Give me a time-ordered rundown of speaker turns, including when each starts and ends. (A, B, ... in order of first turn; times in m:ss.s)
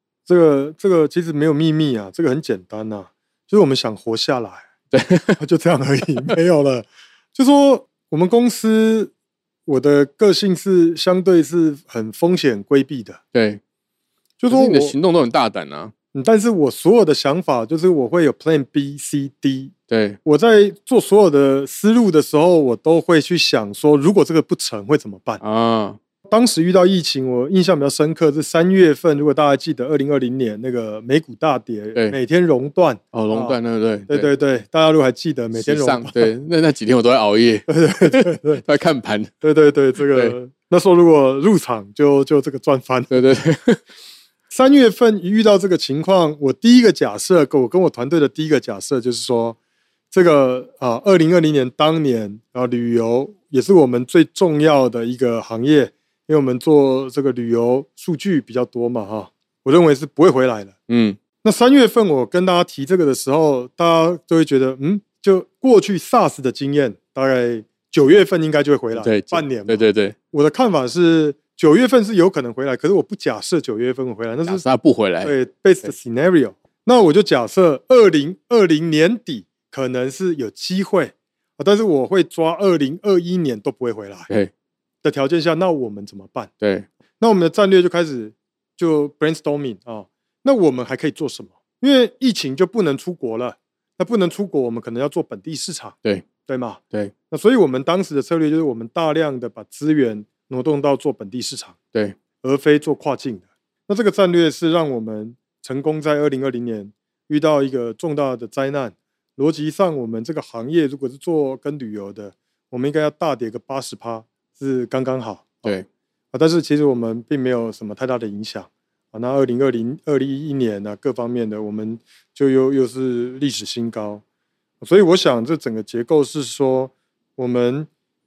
0:00.3-0:04.7 A
0:04.9-0:05.4 B
0:05.4-0:09.1 A
0:09.7-0:13.2 A
0:13.3-0:13.6 B
0:14.4-0:15.0 A
0:14.5-0:15.9 B
0:16.1-0:19.7 A
0:19.9-0:20.2 B
0:20.2-0:25.4 A
0:25.4-0:26.0 B
0:26.3-0:33.6 A
0:33.1-0:34.3 B
0:34.1-0:36.3 A
0:35.5-0:39.3 B
0:37.7-0:38.6 A
0:39.4-0:43.4 A
0:43.1-0:43.8 B
0:44.5-0:49.6 A
0:50.1-1:00.8 A
1:00.9-1:01.2 B
1:01.4-1:14.6 A
1:09.0-1:10.2 B
1:14.5-1:15.3 B
1:15.2-1:24.3 A
1:25.0-1:26.5 A
1:26.6-1:26.9 B
1:27.2-1:41.8 A
1:42.4-1:55.8 A
1:56.3-2:04.2 A
2:04.8-2:07.9 A